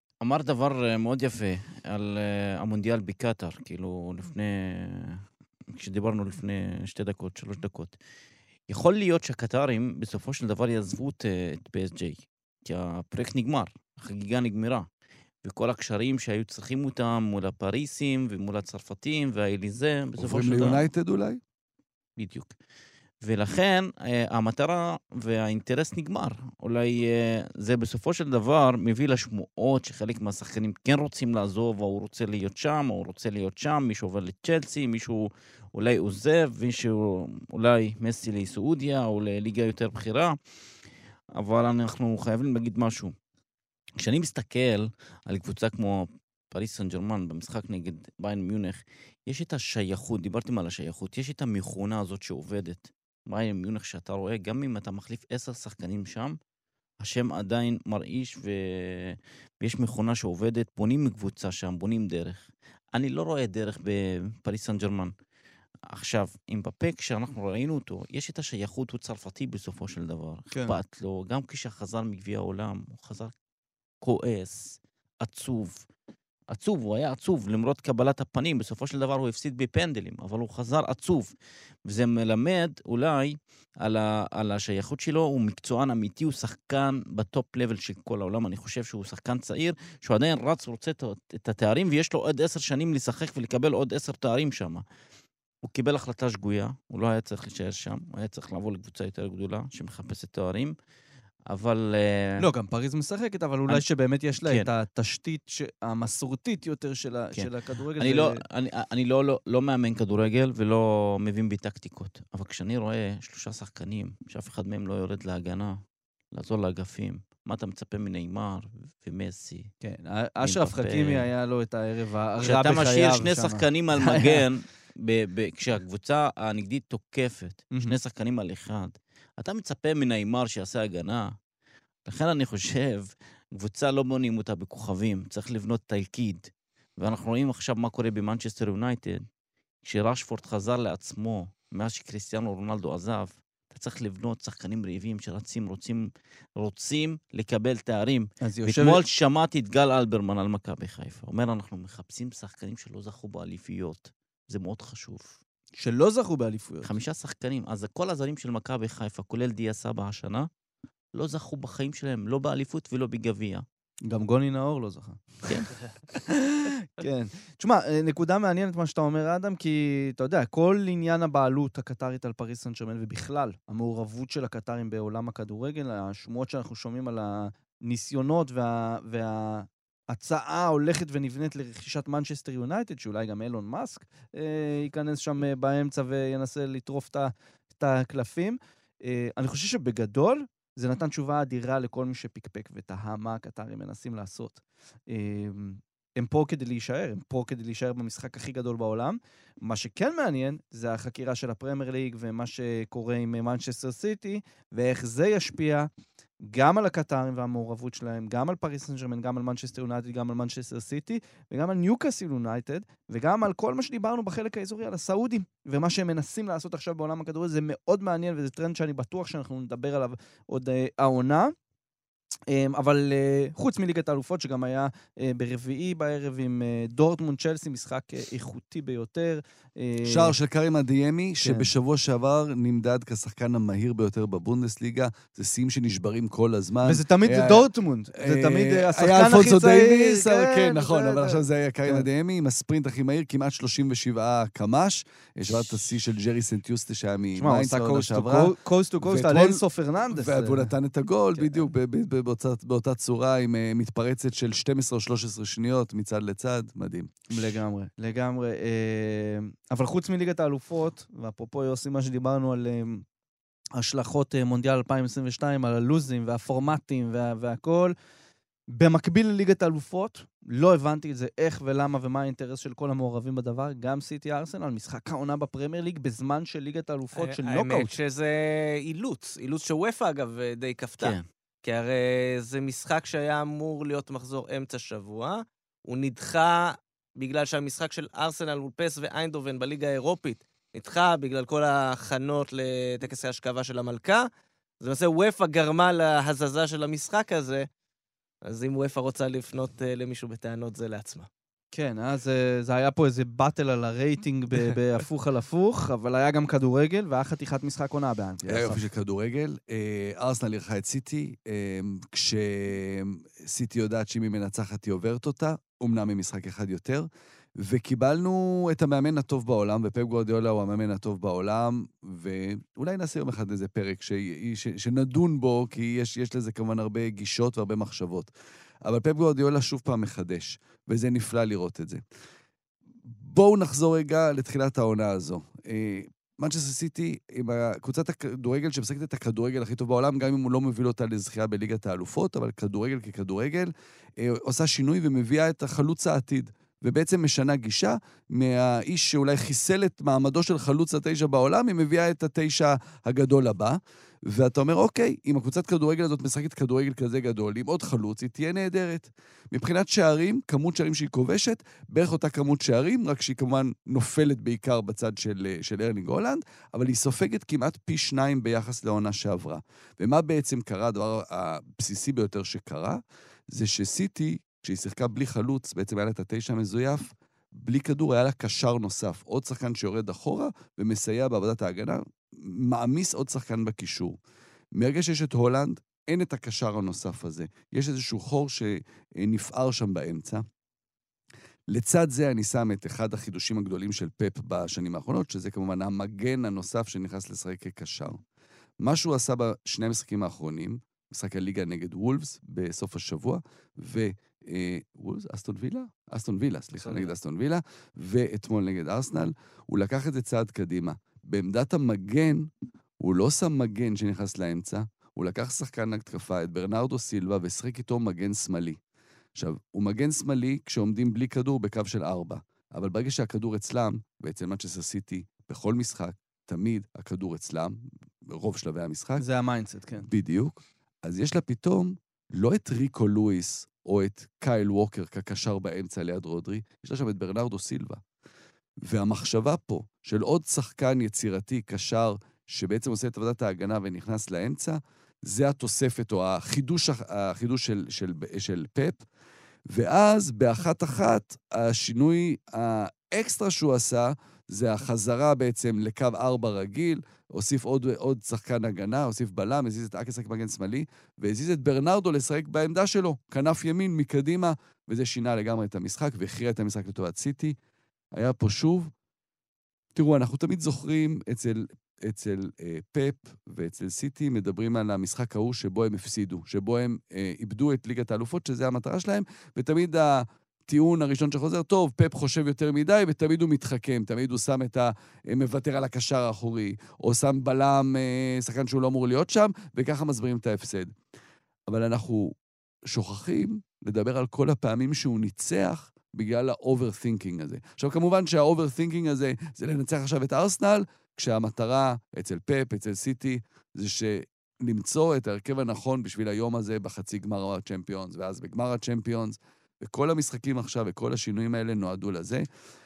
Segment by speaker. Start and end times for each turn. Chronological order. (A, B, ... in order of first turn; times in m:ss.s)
0:00.2-0:05.2 A
0:05.7-0:08.0 A
0:08.7-0:14.9 A
0:15.4-0:20.8 A
0:20.2-0:21.4 B
0:22.2-0:22.5 A
0:23.2-0:40.4 A
0:41.4-0:43.1 A
0:44.0-0:56.4 A
0:57.0-1:05.1 A
1:05.9-1:13.3 A
1:10.5-1:10.8 C
1:14.0-1:15.8 A
1:16.5-1:21.3 A
1:21.8-1:34.8 A
1:35.6-1:40.7 A
1:41.5-1:42.4 A
1:42.4-1:48.4 C
1:44.4-1:44.7 A
1:47.3-1:55.8 A
1:56.3-1:59.7 A
1:59.8-2:04.4 C
2:00.4-2:01.3 A
2:02.4-2:11.3 A
2:12.0-2:19.2 A
2:19.8-2:35.4 A
2:28.4-2:29.0 C
2:35.8-2:36.9 C
2:36.8-2:40.5 A
2:41.1-2:43.6 A
2:44.1-2:45.5 C
2:45.4-2:45.7 A
2:46.3-3:25.9 C
3:26.4-3:41.5 C
3:42.5-3:50.3 C
3:50.0-4:17.4 B
3:51.4-3:51.7 C
3:56.8-4:02.0 C
4:07.4-4:10.7 C
4:11.4-4:11.6 C
4:17.3-4:23.0 C
4:23.8-4:27.9 C
4:28.7-4:37.9 C
4:37.2-4:54.3 D
4:41.0-4:41.2 A
4:54.8-4:57.7 D
4:58.4-5:01.3 D
5:01.7-5:08.8 C
5:08.4-5:17.1 B
5:17.6-5:28.3 B
5:28.8-5:32.0 B
5:33.1-6:24.2 B
6:24.7-6:30.4 B
6:31.7-6:38.2 B
6:38.8-6:58.8 B
6:46.8-6:47.1 C
6:59.3-7:09.2 B
7:09.2-7:10.1 C
7:10.0-7:18.0 B
7:18.8-7:29.0 B
7:29.7-7:47.5 B
7:48.1-7:48.9 B
7:49.9-8:10.9 B
8:11.7-8:12.4 B
8:12.9-8:32.4 B